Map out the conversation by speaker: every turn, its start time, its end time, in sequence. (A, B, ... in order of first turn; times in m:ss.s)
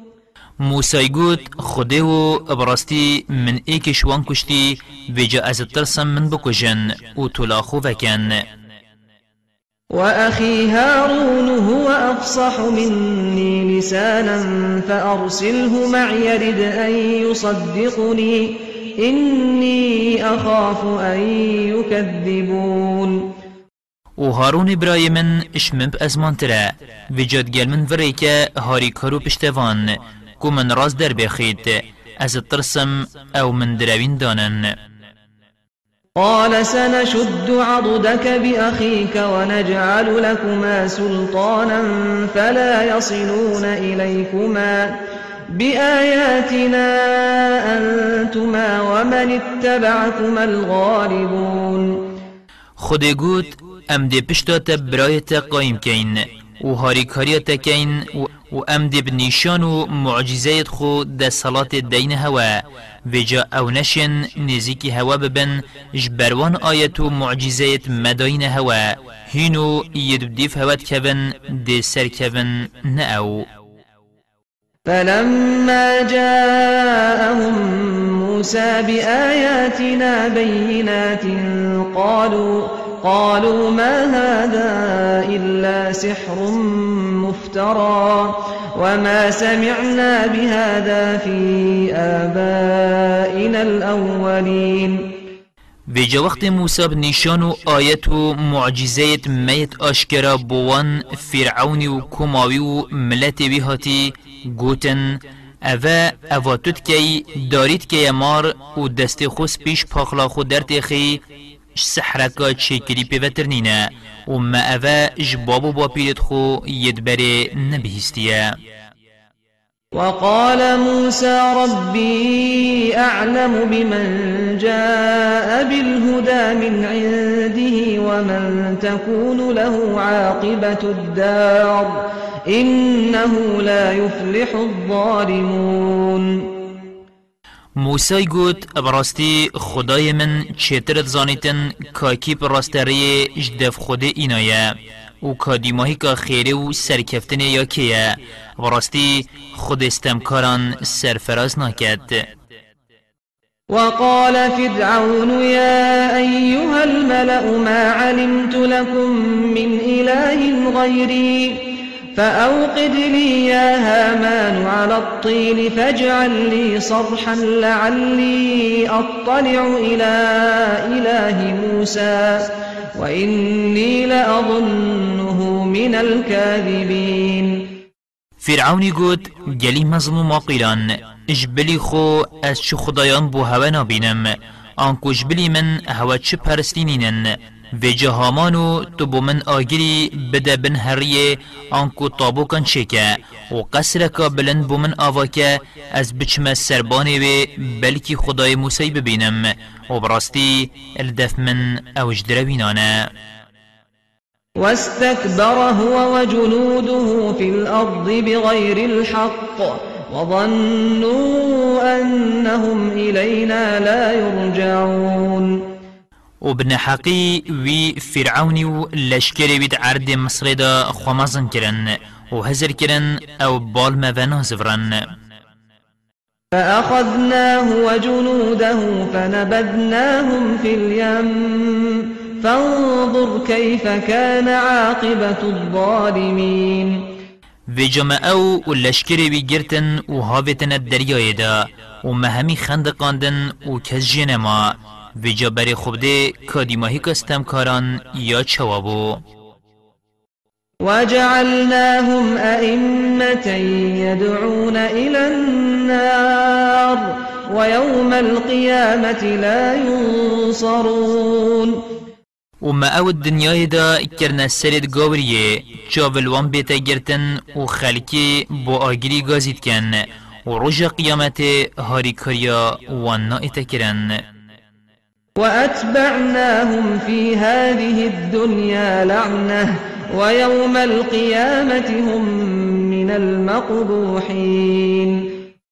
0:00.6-0:08.4 A
0:09.9-0:23.3 B
0:24.2-0:34.7 A
0:36.2-0:45.0 B
0:45.5-0:52.1 B
0:52.8-1:13.5 A
1:14.9-1:35.2 B
1:35.9-1:51.2 A
1:51.7-1:58.5 A
1:59.9-2:16.6 B
2:17.8-2:32.2 A
2:33.7-2:57.8 B
2:58.4-3:23.1 A
3:24.6-3:35.7 B
3:36.4-3:45.1 A
3:46.5-3:57.1 B
3:57.7-4:09.2 A
4:10.8-4:21.8 B
4:22.6-4:34.2 A
4:35.4-4:45.3 B